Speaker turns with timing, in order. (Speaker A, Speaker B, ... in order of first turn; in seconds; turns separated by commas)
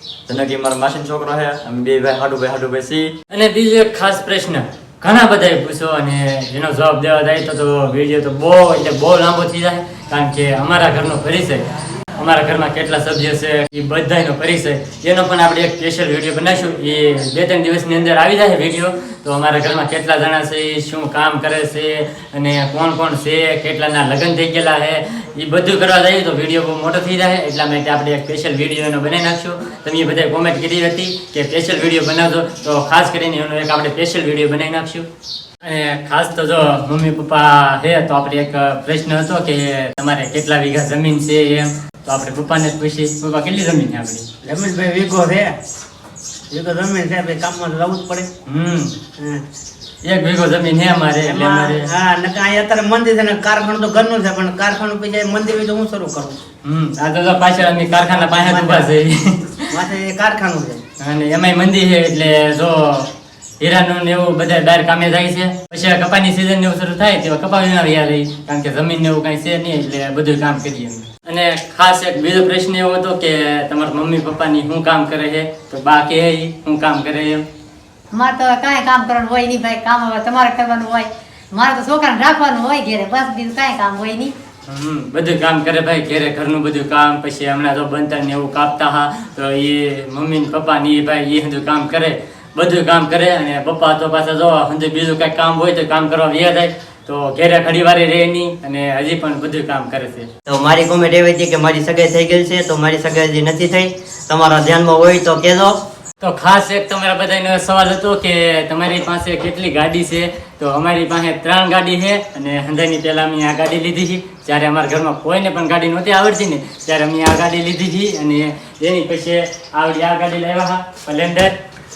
Speaker A: 0.3-3.1, Speaker B: 3.3-11.6, Speaker B: 12.2-35.0, Speaker B: 35.6-44.2, Speaker C: 44.4-45.5, Speaker C: 46.5-48.3, Speaker B: 48.5-48.9, Speaker C: 49.2-49.4, Speaker B: 50.0-51.9, Speaker C: 51.2-56.4, Speaker B: 56.6-59.8, Speaker C: 58.3-58.9, Speaker C: 59.7-60.8, Speaker B: 61.0-63.1, Speaker B: 63.6-77.4, Speaker D: 78.1-84.3, Speaker B: 84.7-100.3, Speaker E: 100.5-105.8, Speaker B: 106.2-121.6